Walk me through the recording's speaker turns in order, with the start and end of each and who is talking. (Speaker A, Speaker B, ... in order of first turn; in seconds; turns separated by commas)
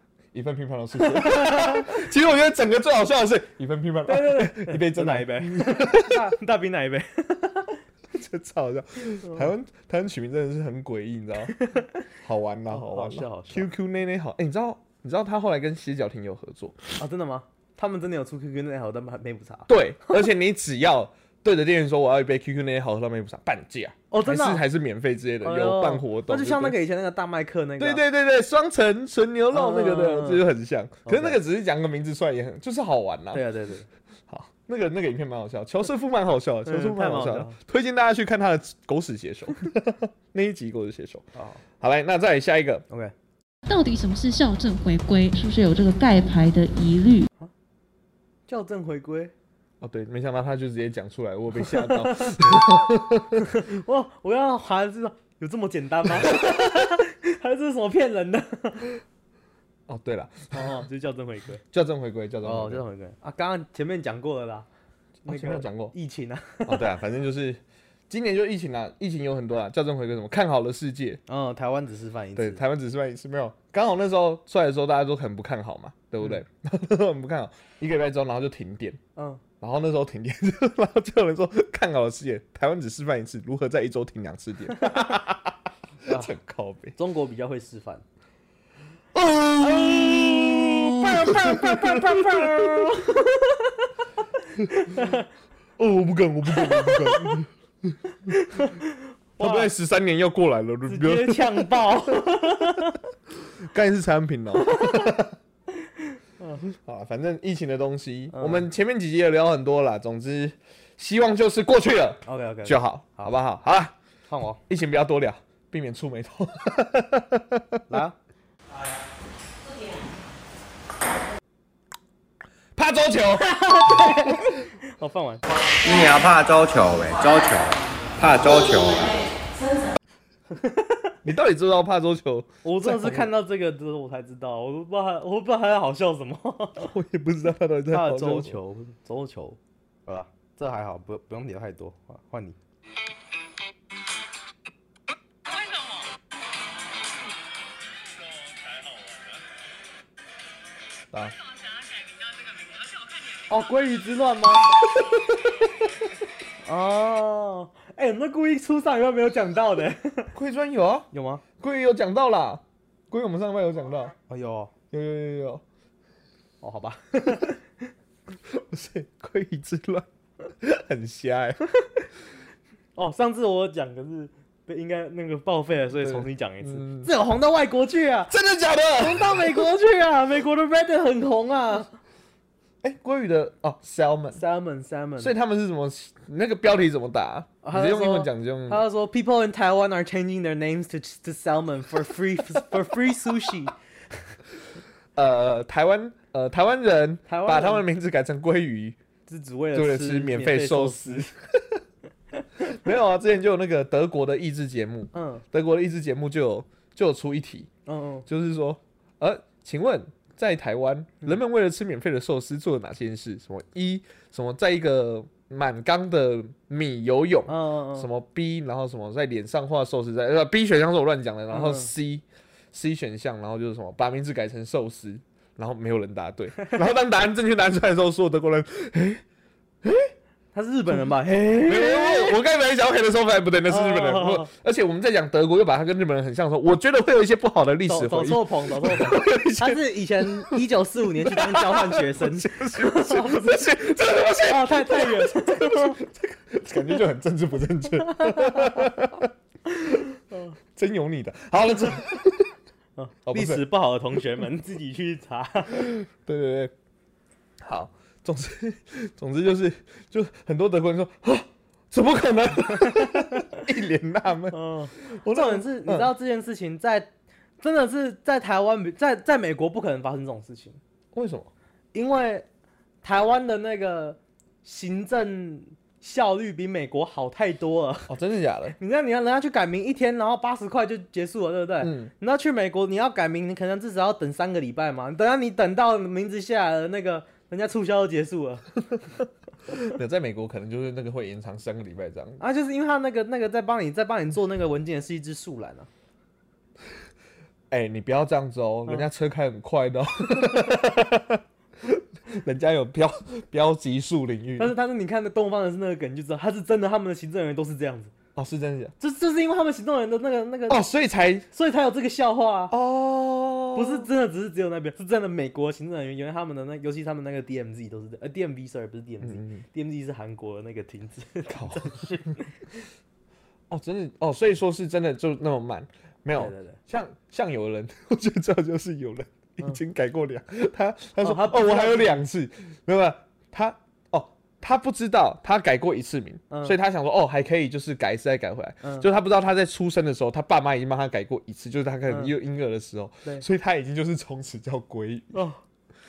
Speaker A: 0.3-6.2, Speaker B: 1.0-1.9, Speaker B: 4.1-7.8, Speaker A: 8.1-11.6, Speaker B: 11.6-11.9, Speaker A: 12.2-16.8, Speaker B: 12.7-13.7, Speaker B: 17.0-20.2, Speaker A: 19.7-26.8, Speaker B: 24.1-24.6, Speaker B: 25.4-28.0, Speaker A: 27.8-33.5, Speaker B: 29.5-30.4, Speaker B: 31.1-31.4, Speaker B: 33.3-33.9, Speaker A: 34.3-41.3, Speaker B: 36.7-37.6, Speaker B: 41.4-41.6, Speaker A: 41.8-42.9, Speaker C: 43.7-47.3, Speaker B: 48.5-49.3, Speaker A: 49.8-53.5, Speaker B: 51.8-52.6, Speaker B: 53.4-58.9, Speaker A: 59.9-60.8, Speaker B: 60.5-61.6, Speaker A: 61.7-62.8, Speaker B: 62.4-64.7, Speaker B: 65.2-66.9, Speaker A: 65.3-65.9, Speaker A: 66.7-71.2, Speaker B: 71.3-72.6, Speaker A: 72.4-79.0, Speaker B: 79.2-79.4, Speaker A: 79.6-87.0, Speaker B: 86.0-86.3, Speaker B: 87.0-88.0, Speaker A: 89.1-93.0, Speaker B: 89.9-93.9, Speaker B: 94.6-95.3, Speaker A: 95.8-98.0, Speaker B: 96.6-97.4, Speaker B: 98.3-98.8, Speaker B: 99.4-99.7, Speaker A: 99.4-101.8, Speaker B: 100.9-103.0, Speaker A: 103.6-105.3, Speaker B: 104.7-105.1, Speaker B: 106.4-106.7, Speaker A: 106.7-113.9, Speaker B: 108.3-108.7, Speaker B: 112.3-113.3, Speaker B: 114.3-114.6, Speaker A: 114.7-117.8, Speaker B: 117.9-118.2, Speaker A: 122.8-124.3, Speaker B: 123.5-125.4, Speaker D: 125.8-129.2, Speaker B: 130.6-131.0, Speaker A: 131.2-133.3, Speaker B: 132.6-136.9, Speaker A: 136.8-138.6, Speaker B: 137.9-142.6, Speaker B: 153.5-154.8, Speaker B: 156.6-160.3, Speaker A: 160.3-164.2, Speaker B: 161.1-161.4, Speaker B: 164.3-164.7, Speaker A: 164.9-165.6, Speaker B: 166.6-167.6, Speaker A: 168.5-170.1, Speaker A: 170.6-171.6, Speaker B: 173.0-178.3, Speaker A: 176.0-177.1, Speaker A: 178.3-179.7, Speaker B: 179.0-181.9, Speaker A: 182.8-184.4, Speaker B: 184.3-185.3, Speaker A: 185.2-188.8, Speaker B: 187.6-193.7, Speaker A: 195.2-199.0, Speaker B: 197.3-197.8, Speaker B: 199.3-201.3, Speaker A: 199.7-201.8, Speaker A: 202.7-207.7, Speaker B: 205.1-205.4, Speaker B: 207.9-208.3, Speaker A: 208.3-229.2, Speaker B: 217.5-218.1, Speaker B: 221.5-221.9, Speaker A: 229.8-230.1, Speaker B: 230.5-232.4, Speaker A: 230.9-239.8, Speaker B: 233.7-234.5, Speaker B: 237.9-243.7, Speaker A: 241.2-249.3, Speaker B: 244.4-246.0, Speaker B: 248.1-248.9, Speaker A: 250.8-252.5, Speaker B: 253.0-255.9, Speaker A: 253.3-253.7, Speaker A: 255.8-256.7, Speaker A: 257.6-266.1, Speaker B: 262.8-263.6, Speaker B: 264.5-267.1, Speaker B: 267.6-270.8, Speaker A: 271.1-271.5, Speaker B: 271.9-272.5, Speaker B: 273.0-278.1, Speaker A: 278.1-278.8, Speaker B: 278.8-288.7, Speaker A: 281.8-282.1, Speaker A: 289.7-292.4, Speaker B: 292.4-295.9, Speaker A: 297.7-304.8, Speaker B: 304.6-308.1, Speaker A: 308.4-308.9, Speaker B: 309.0-310.8, Speaker A: 310.7-311.5, Speaker B: 311.5-312.7, Speaker A: 312.7-314.1, Speaker B: 313.8-322.5, Speaker A: 319.2-319.6, Speaker A: 321.5-322.4, Speaker A: 323.7-345.4, Speaker B: 326.4-326.8, Speaker B: 331.2-332.2, Speaker B: 336.5-336.8, Speaker B: 338.8-339.1, Speaker B: 345.3-345.6